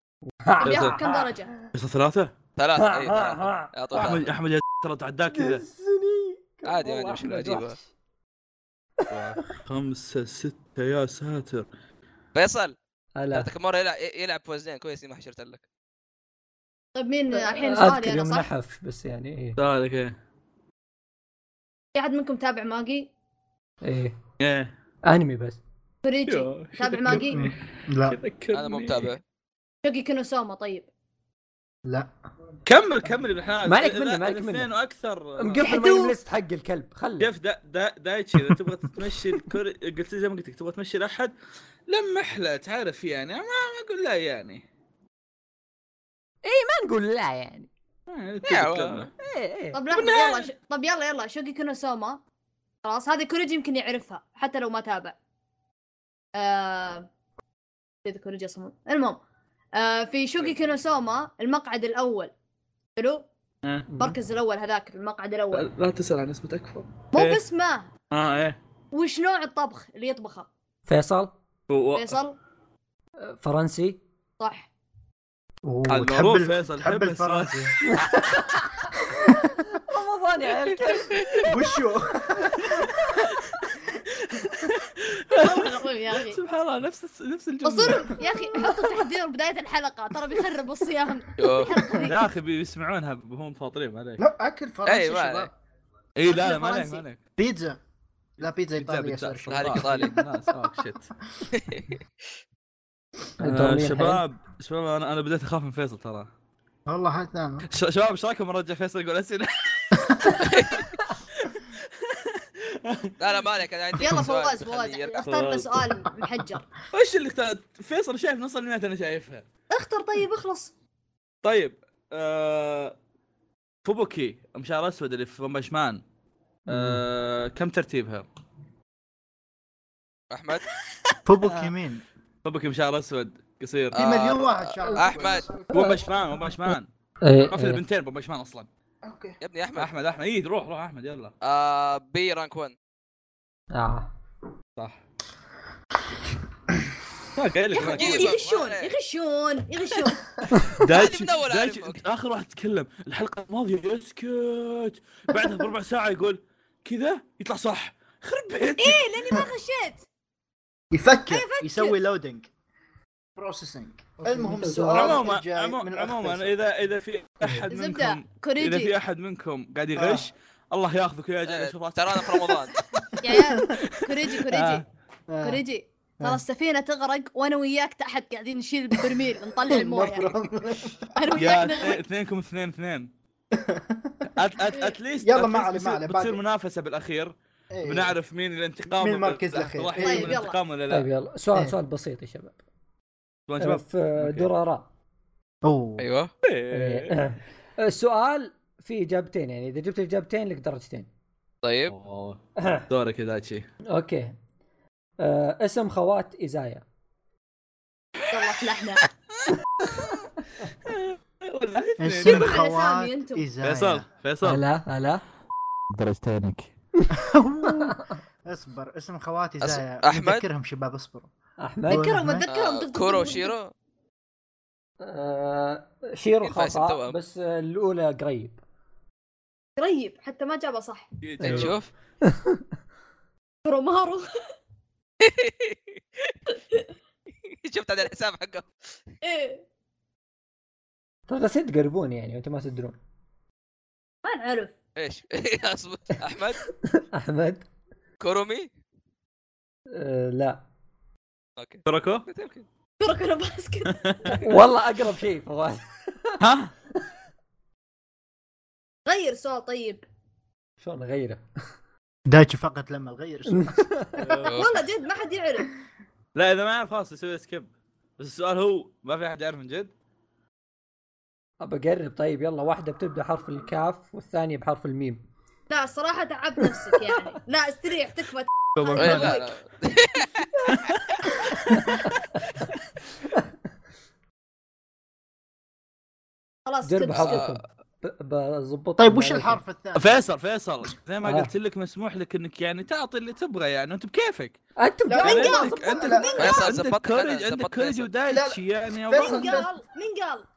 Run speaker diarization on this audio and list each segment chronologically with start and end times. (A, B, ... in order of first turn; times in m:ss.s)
0:00.4-0:01.3 A
0:00.6-0:01.6 B
0:00.6-0:01.0 C
0:01.7-0:02.3 C
0:02.6-0:04.3 D
0:02.8-0:04.1 A
0:03.9-0:05.6 C
0:05.3-0:07.9 A
0:06.6-0:07.8 D
0:09.0-0:09.4 A
0:09.1-0:11.6 C
0:12.3-0:12.7 D
0:13.2-0:13.5 A
0:13.3-0:15.6 D
0:16.9-0:18.5 B
0:17.3-0:19.6 A
0:19.6-0:20.2 C
0:21.9-0:23.1 B
0:23.8-0:24.1 A
0:24.4-0:24.7 C
0:25.0-0:25.6 A
0:26.0-0:27.5 B
0:26.2-0:27.5 C
0:27.1-0:28.2 E
0:28.0-0:29.1 C
0:28.5-0:29.2 D
0:29.8-0:30.9 B
0:32.6-0:35.7 C
0:33.6-0:34.7 A
0:35.4-0:37.3 A
0:35.6-0:36.2 B
0:37.2-0:41.3 C
0:41.9-0:44.6 C
0:46.4-0:47.7 A
0:48.1-0:49.1 C
0:48.4-0:49.1 D
0:49.2-0:49.8 A
0:49.7-0:52.2 B
0:49.9-0:50.5 C
0:52.8-0:55.2 B
0:56.4-0:57.1 B
0:58.0-0:59.2 B
0:59.7-1:02.3 B
1:03.0-1:03.2 B
1:03.6-1:03.9 C
1:03.9-1:04.2 A
1:04.0-1:05.7 B
1:05.5-1:07.4 C
1:07.1-1:07.9 B
1:08.1-1:08.6 C
1:08.9-1:10.5 B
1:10.8-1:11.3 A
1:11.7-1:12.2 C
1:11.9-1:12.4 B
1:13.2-1:14.0 A
1:14.4-1:14.7 B
1:15.6-1:17.7 E
1:15.9-1:17.5 C
1:18.0-1:18.6 A
1:19.7-1:21.5 A
1:21.4-1:23.1 E
1:24.6-1:28.9 C
1:25.4-1:26.4 B
1:27.6-1:32.2 B
1:31.4-1:31.7 D
1:31.9-1:34.2 C
1:34.2-1:35.5 E
1:34.8-1:35.5 D
1:36.2-1:37.2 C
1:36.3-1:37.0 B
1:37.4-1:37.8 E
1:38.4-1:40.3 E
1:38.8-1:41.1 C
1:39.5-1:40.1 D
1:41.5-1:42.0 D
1:43.4-1:44.2 A
1:43.4-1:46.3 C
1:46.9-1:47.7 E
1:47.7-1:53.1 C
1:50.4-1:50.8 D
1:53.2-1:55.2 D
1:54.0-1:56.7 B
1:55.2-1:55.8 C
1:56.9-1:59.5 C
1:59.7-2:00.7 B
2:01.4-2:02.9 C
2:03.8-2:06.0 C
2:06.7-2:07.0 A
2:06.7-2:08.2 C
2:10.3-2:10.6 D
2:11.2-2:12.0 E
2:11.4-2:11.7 C
2:12.4-2:14.0 C
2:13.9-2:15.4 D
2:13.9-2:15.8 E
2:15.7-2:16.9 C
2:15.7-2:16.0 A
2:17.2-2:17.8 A
2:17.5-2:18.7 C
2:19.0-2:19.4 E
2:19.4-2:19.9 D
2:19.8-2:21.3 C
2:21.4-2:22.7 D
2:23.7-2:24.1 A
2:27.3-2:28.4 C
2:27.7-2:30.4 B
2:27.8-2:28.9 D
2:30.8-2:39.1 C
2:30.8-2:32.0 D
2:38.8-2:40.0 B
2:40.9-2:42.5 E
2:41.3-2:42.0 B
2:43.4-2:46.5 E
2:44.2-2:45.2 A
2:44.9-2:52.6 C
2:47.7-2:48.9 B
2:49.9-2:50.3 E
2:51.4-2:52.7 D
2:53.2-2:54.8 B
2:53.2-2:53.6 E
2:53.6-2:54.8 C
2:55.3-2:55.6 E
2:55.4-3:00.3 B
2:59.7-3:01.2 E
3:01.1-3:02.0 B
3:01.3-3:03.1 C
3:03.5-3:04.3 E
3:04.4-3:11.1 C
3:05.2-3:06.4 E
3:07.7-3:08.1 E
3:09.0-3:10.4 E
3:10.0-3:10.6 B
3:10.9-3:12.6 A
3:13.5-3:14.5 C
3:13.6-3:14.9 A
3:15.6-3:16.1 E
3:16.0-3:16.3 D
3:16.4-3:17.2 C
3:16.7-3:21.1 A
3:21.6-3:21.9 D
3:21.9-3:23.6 C
3:22.6-3:22.8 A
3:23.9-3:24.4 A
3:25.2-3:26.8 A
3:28.3-3:29.0 B
3:28.3-3:28.6 C
3:29.8-3:30.2 C
3:30.8-3:32.6 C
3:32.0-3:34.1 E
3:32.2-3:33.4 B
3:33.6-3:34.6 C
3:34.4-3:35.2 A
3:35.9-3:36.7 C
3:37.1-3:41.3 E
3:37.7-3:38.1 A
3:39.6-3:40.4 D
3:41.6-3:42.2 A
3:41.9-3:42.4 E
3:41.9-3:43.5 B
3:42.5-3:43.7 D
3:45.0-3:48.6 A
3:46.4-3:47.2 D
3:49.8-3:51.1 B
3:51.2-3:51.8 C
3:51.4-3:51.7 A
3:51.4-3:51.9 D
3:52.2-3:52.6 A
3:53.6-3:54.3 B
3:55.2-3:56.3 D
3:57.5-3:58.7 D
3:59.2-3:59.6 B
4:01.3-4:03.0 A
4:04.2-4:04.7 B
4:05.0-4:06.6 D
4:06.8-4:07.7 A
4:08.2-4:08.7 D
4:09.9-4:10.6 A
4:11.6-4:12.6 D
4:11.8-4:12.2 C
4:13.0-4:14.4 B
4:13.9-4:14.4 C
4:14.4-4:16.4 A
4:16.4-4:16.7 C
4:19.0-4:20.0 B
4:20.8-4:21.4 A
4:22.2-4:24.2 E
4:23.5-4:24.2 A
4:24.2-4:24.6 C
4:24.4-4:24.7 D
4:24.4-4:25.7 B
4:26.3-4:29.9 C
4:31.6-4:35.2 A
4:35.7-4:39.5 B
4:38.7-4:39.4 C
4:39.0-4:40.6 D
4:40.7-4:41.1 C
4:41.6-4:42.1 A
4:46.6-4:47.5 B
4:46.8-4:49.6 A
4:47.1-4:47.6 D
4:49.0-4:50.2 E
4:50.0-4:54.6 C
4:51.2-4:51.5 A
4:54.8-4:56.3 A
4:55.1-4:56.3 E
4:55.2-4:56.7 B
4:55.2-4:59.7 C
4:56.4-4:58.1 D
4:58.3-4:59.7 E
4:59.2-5:00.4 B